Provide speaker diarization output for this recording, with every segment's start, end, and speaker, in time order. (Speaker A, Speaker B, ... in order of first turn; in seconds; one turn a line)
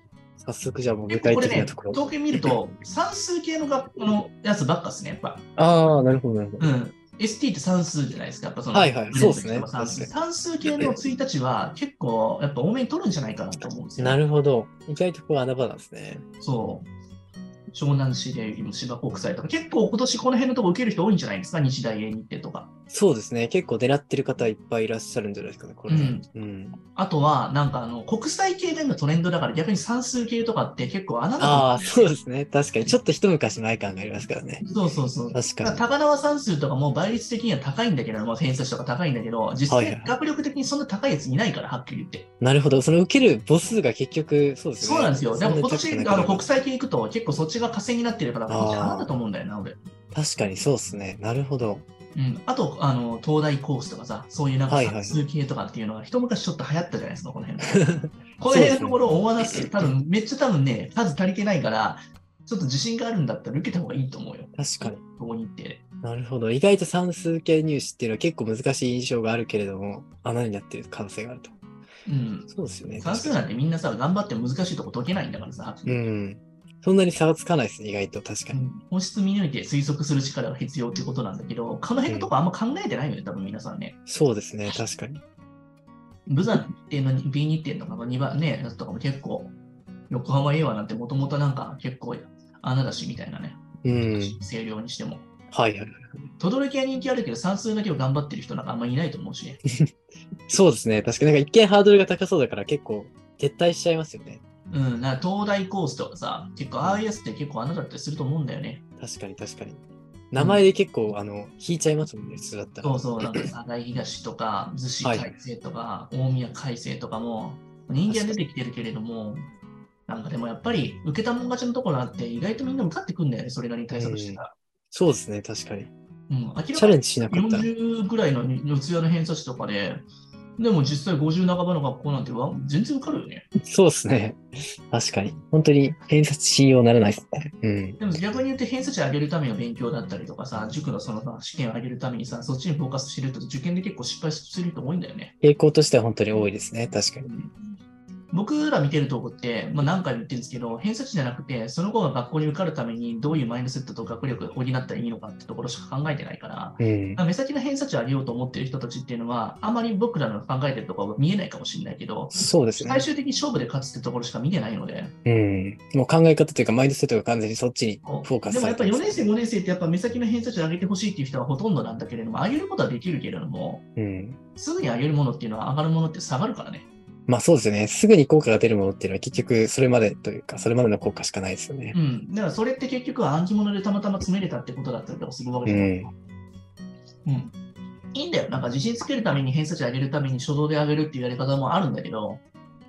Speaker A: 0.4-2.5
Speaker B: 1.1-5.4
Speaker A: 5.6-6.7
Speaker B: 6.6-14.2
Speaker A: 8.7-10.1
Speaker A: 10.7-10.9
Speaker A: 14.0-16.2
Speaker B: 16.4-16.9
Speaker B: 17.7-22.7
Speaker A: 22.9-26.8
Speaker B: 25.9-26.2
Speaker B: 26.9-32.1
Speaker A: 31.4-34.6
Speaker B: 34.6-42.2
Speaker A: 35.3-35.8
Speaker A: 39.7-40.2
Speaker A: 42.4-46.5
Speaker B: 44.8-49.8
Speaker A: 48.5-49.1
Speaker A: 50.1-51.8
Speaker B: 52.1-57.8
Speaker A: 54.7-55.2
Speaker A: 57.7-59.0
Speaker B: 58.4-65.8
Speaker A: 59.5-59.9
Speaker A: 64.5-65.0
Speaker A: 66.0-71.5
Speaker B: 72.0-76.0
Speaker A: 72.5-73.4
Speaker A: 75.8-78.6
Speaker B: 78.5-84.0
Speaker A: 82.1-82.3
Speaker A: 84.1-85.2
Speaker B: 86.3-89.5
Speaker B: 90.1-95.2
Speaker A: 93.8-94.4
Speaker A: 95.5-96.3
Speaker B: 96.4-99.6
Speaker A: 100.5-104.4
Speaker B: 104.7-108.8
Speaker A: 109.0-113.2
Speaker B: 110.3-110.7
Speaker B: 112.8-119.5
Speaker A: 115.0-115.4
Speaker A: 118.1-118.4
Speaker B: 120.1-124.5
Speaker A: 123.9-125.9
Speaker B: 126.3-130.0
Speaker A: 126.7-127.7
Speaker B: 130.6-133.4
Speaker A: 133.6-138.0
Speaker B: 138.0-145.3
Speaker A: 145.4-147.3
Speaker B: 147.2-147.7
Speaker B: 148.3-165.1
Speaker A: 156.8-157.2
Speaker A: 162.3-163.1
Speaker A: 165.2-169.3
Speaker B: 168.0-173.8
Speaker A: 173.9-174.4
Speaker B: 174.6-176.9
Speaker A: 177.3-182.0
Speaker B: 181.9-186.1
Speaker A: 185.6-186.1
Speaker B: 187.2-187.5
Speaker B: 188.1-192.4